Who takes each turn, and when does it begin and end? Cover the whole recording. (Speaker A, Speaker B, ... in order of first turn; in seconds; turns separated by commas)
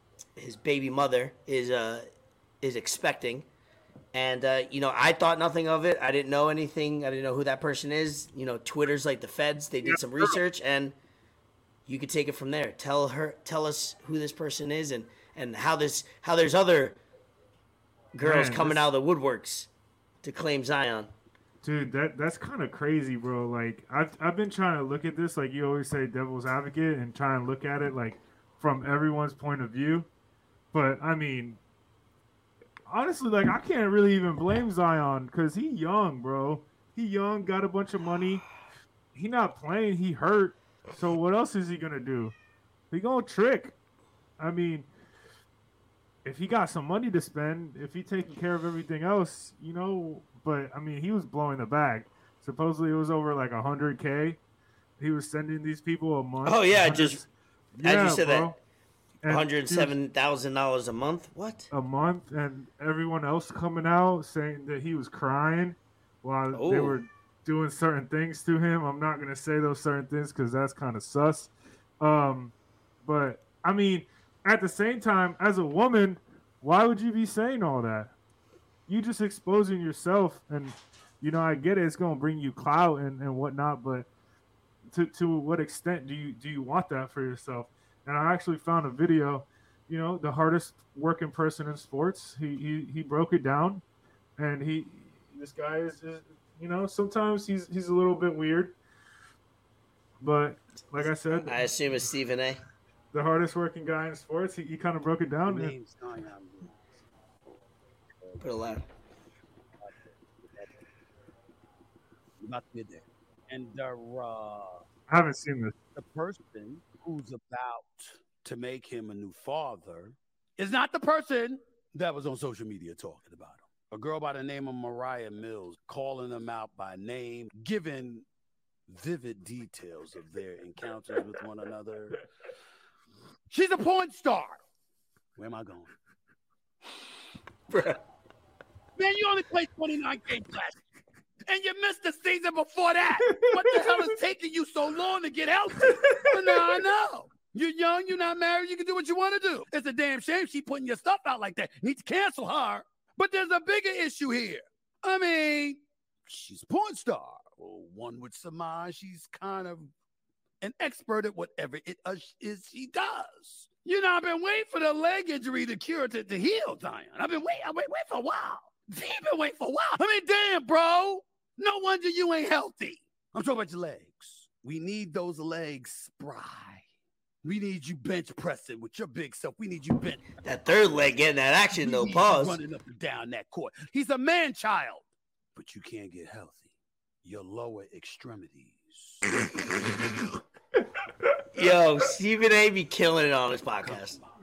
Speaker A: 0.4-2.1, Speaker A: 2.6-3.5, Speaker A: 4.1-10.9, Speaker B: 9.8-10.4, Speaker A: 11.9-17.0, Speaker A: 18.1-19.7, Speaker B: 18.2-18.8, Speaker A: 20.2-21.1, Speaker B: 21.6-30.1, Speaker B: 30.7-31.6, Speaker B: 32.9-38.5, Speaker B: 39.1-42.4, Speaker B: 42.9-43.8, Speaker B: 44.4-44.9, Speaker B: 46.2-54.4, Speaker B: 55.0-57.3, Speaker A: 56.4-57.2, Speaker B: 57.8-58.6, Speaker A: 57.8-58.5, Speaker B: 59.2-59.9, Speaker A: 59.3-61.7, Speaker B: 61.7-72.5, Speaker A: 66.5-67.0, Speaker B: 73.0-78.1, Speaker B: 78.9-84.1, Speaker B: 84.9-93.8, Speaker B: 94.4-98.7, Speaker B: 100.2-101.8, Speaker A: 101.3-102.6, Speaker B: 103.1-105.8, Speaker C: 105.5-106.8, Speaker C: 108.2-108.8, Speaker A: 108.4-108.8, Speaker C: 109.8-110.8, Speaker C: 112.4-114.9, Speaker B: 115.1-115.8, Speaker C: 115.9-128.2, Speaker C: 128.9-132.2, Speaker C: 133.5-134.6, Speaker C: 135.4-135.9, Speaker A: 137.7-138.0, Speaker C: 138.9-140.8, Speaker C: 141.4-159.9, Speaker C: 160.6-176.8, Speaker C: 177.4-180.3, Speaker A: 180.4-182.6, Speaker C: 181.8-186.7, Speaker C: 187.2-189.2, Speaker A: 191.5-194.2, Speaker C: 193.8-194.3